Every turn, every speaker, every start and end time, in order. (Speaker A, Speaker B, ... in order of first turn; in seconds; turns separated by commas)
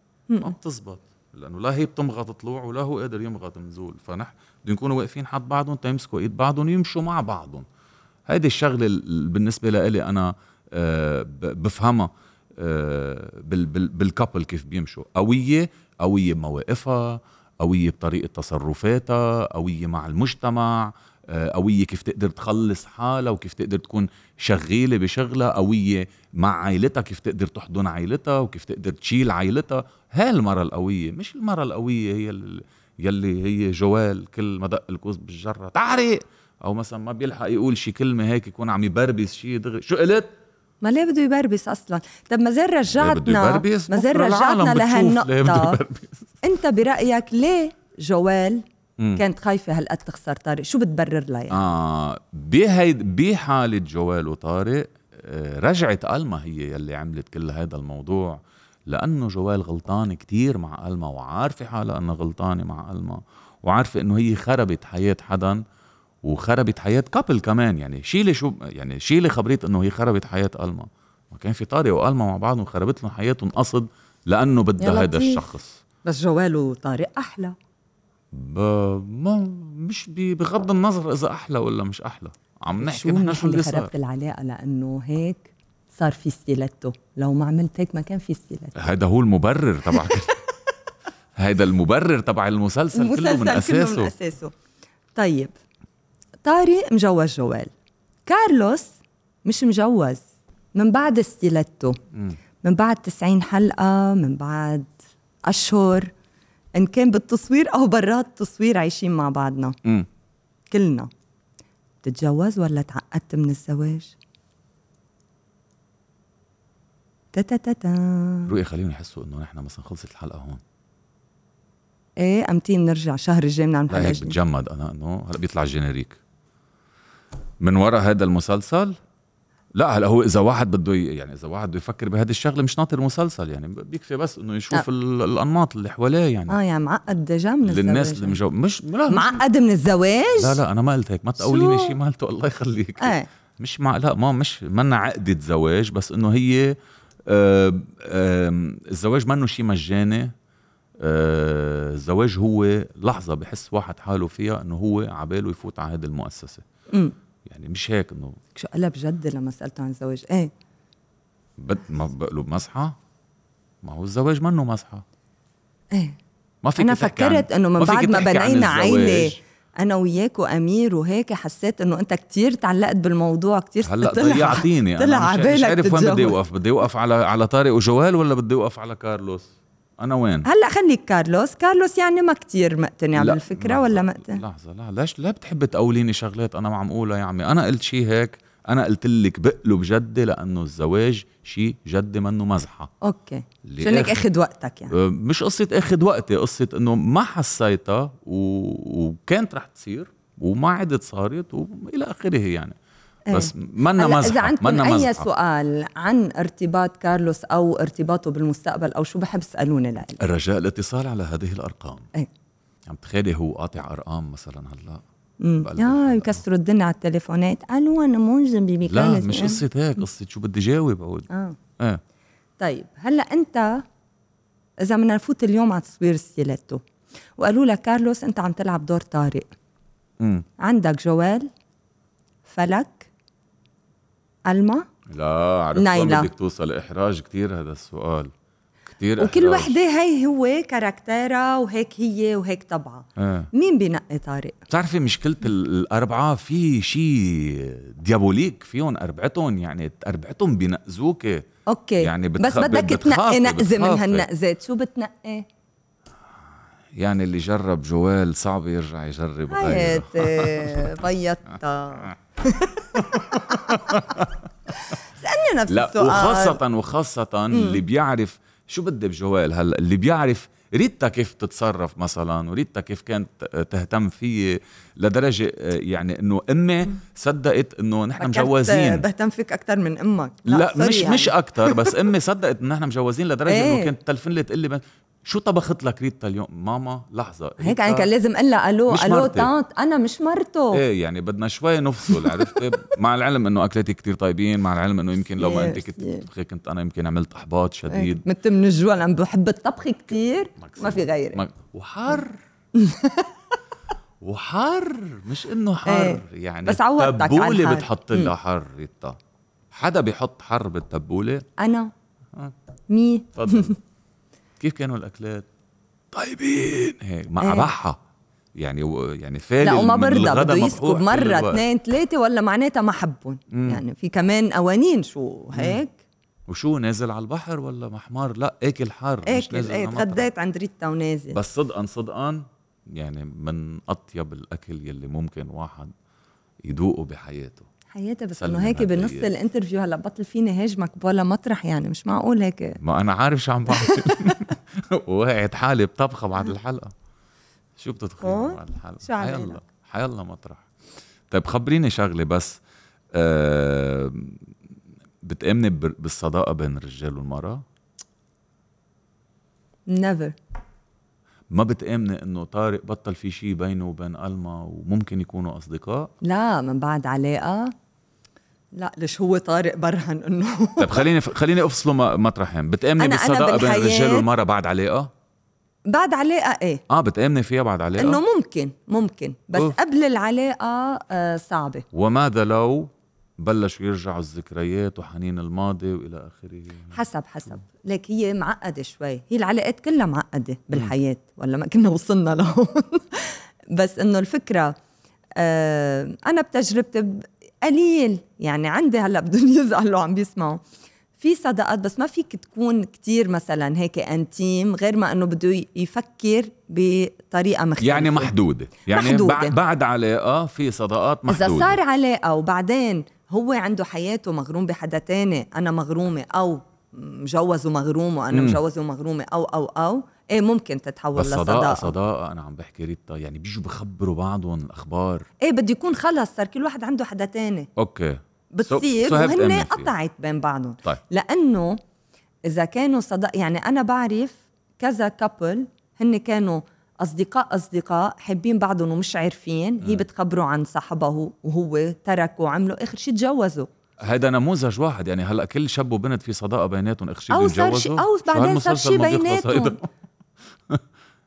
Speaker A: 0.4-7.7, Speaker A: 8.3-40.3, Speaker B: 40.8-45.8, Speaker A: 42.9-46.3, Speaker B: 46.4-48.6, Speaker B: 49.1-51.6, Speaker A: 51.5-65.6, Speaker A: 66.2-75.8, Speaker B: 74.8-75.4, Speaker B: 76.0-77.5, Speaker A: 78.3-83.9, Speaker B: 82.8-88.8, Speaker A: 88.8-90.4, Speaker B: 89.9-90.2, Speaker A: 91.4-94.1, Speaker B: 92.9-94.5, Speaker B: 95.1-95.5, Speaker B: 96.4-97.7, Speaker B: 98.2-98.9, Speaker B: 99.4-100.2, Speaker B: 100.8-102.0, Speaker B: 102.6-104.9, Speaker B: 105.5-106.1, Speaker B: 106.8-109.8, Speaker B: 110.7-111.1, Speaker B: 112.0-114.1, Speaker B: 117.3-118.5, Speaker A: 118.5-120.6, Speaker B: 122.2-124.4, Speaker A: 123.9-126.2, Speaker A: 127.6-129.0, Speaker A: 129.8-136.5, Speaker B: 136.5-138.4, Speaker A: 137.7-139.4, Speaker B: 139.1-140.6, Speaker A: 140.4-146.8, Speaker B: 141.4-141.9, Speaker B: 143.0-143.3, Speaker A: 147.3-150.3, Speaker A: 151.0-156.6, Speaker A: 157.4-158.4, Speaker B: 158.5-160.5, Speaker A: 161.6-163.0, Speaker A: 163.8-165.0, Speaker B: 165.9-166.2, Speaker A: 166.6-169.4, Speaker B: 166.8-176.4, Speaker A: 173.8-180.5, Speaker B: 180.4-184.4, Speaker A: 183.1-192.9, Speaker B: 193.0-194.9, Speaker A: 193.6-194.2, Speaker A: 194.9-202.8, Speaker B: 203.3-210.2, Speaker A: 203.3-205.3, Speaker A: 210.2-212.1, Speaker A: 212.8-215.0, Speaker B: 215.4-219.6, Speaker A: 215.6-216.4, Speaker A: 218.9-221.3, Speaker B: 221.3-221.6, Speaker B: 222.6-223.8, Speaker B: 224.8-226.8, Speaker B: 227.4-229.5, Speaker A: 230.2-230.5, Speaker B: 230.6-231.5, Speaker B: 232.5-233.1, Speaker B: 234.5-234.8, Speaker A: 235.1-238.3, Speaker B: 235.8-236.3, Speaker A: 238.9-239.8, Speaker B: 239.2-244.6, Speaker A: 243.2-243.5, Speaker A: 244.7-251.4, Speaker B: 251.7-255.5, Speaker A: 252.0-254.2, Speaker A: 256.9-261.0, Speaker B: 259.5-264.0, Speaker A: 262.9-264.4, Speaker B: 264.8-266.6, Speaker A: 265.7-279.1, Speaker B: 267.5-267.8, Speaker B: 278.2-282.0, Speaker A: 280.5-288.1, Speaker B: 283.5-283.9, Speaker B: 287.6-290.8, Speaker A: 288.9-289.5, Speaker A: 290.7-298.2, Speaker B: 292.1-292.6, Speaker B: 295.4-296.2, Speaker B: 297.9-301.4, Speaker A: 300.6-302.4, Speaker B: 302.8-303.3, Speaker A: 304.2-309.2, Speaker B: 305.9-308.3, Speaker A: 309.7-311.4, Speaker B: 311.6-311.9, Speaker B: 312.9-313.8, Speaker A: 313.4-313.7, Speaker A: 314.6-315.5, Speaker A: 316.1-318.0, Speaker B: 317.4-317.7, Speaker A: 318.6-321.6, Speaker B: 319.6-326.0, Speaker A: 323.5-323.8, Speaker A: 325.5-325.8, Speaker A: 326.5-330.2, Speaker B: 329.2-331.4, Speaker A: 331.3-335.9, Speaker A: 336.6-337.7, Speaker B: 337.9-342.8, Speaker A: 338.4-339.3, Speaker A: 342.8-346.9, Speaker B: 343.7-344.3, Speaker A: 347.8-350.7, Speaker B: 348.2-349.6, Speaker A: 351.3-352.6, Speaker A: 353.1-354.4, Speaker A: 355.2-357.6, Speaker B: 359.9-360.4, Speaker A: 361.5-366.1, Speaker B: 366.2-367.7, Speaker B: 368.7-371.1, Speaker A: 370.8-375.1, Speaker B: 373.0-374.2, Speaker B: 375.9-376.8, Speaker A: 376.9-378.2, Speaker B: 378.0-381.9, Speaker A: 381.9-387.0, Speaker B: 386.9-394.8, Speaker B: 395.4-400.6, Speaker B: 401.2-408.3, Speaker A: 407.8-411.8, Speaker B: 408.9-409.5, Speaker B: 411.3-421.9, Speaker A: 418.3-418.6, Speaker A: 421.1-425.3, Speaker B: 425.4-427.7, Speaker A: 427.8-429.9, Speaker B: 428.5-431.8, Speaker B: 432.5-443.7, Speaker A: 444.0-449.8, Speaker B: 447.3-449.8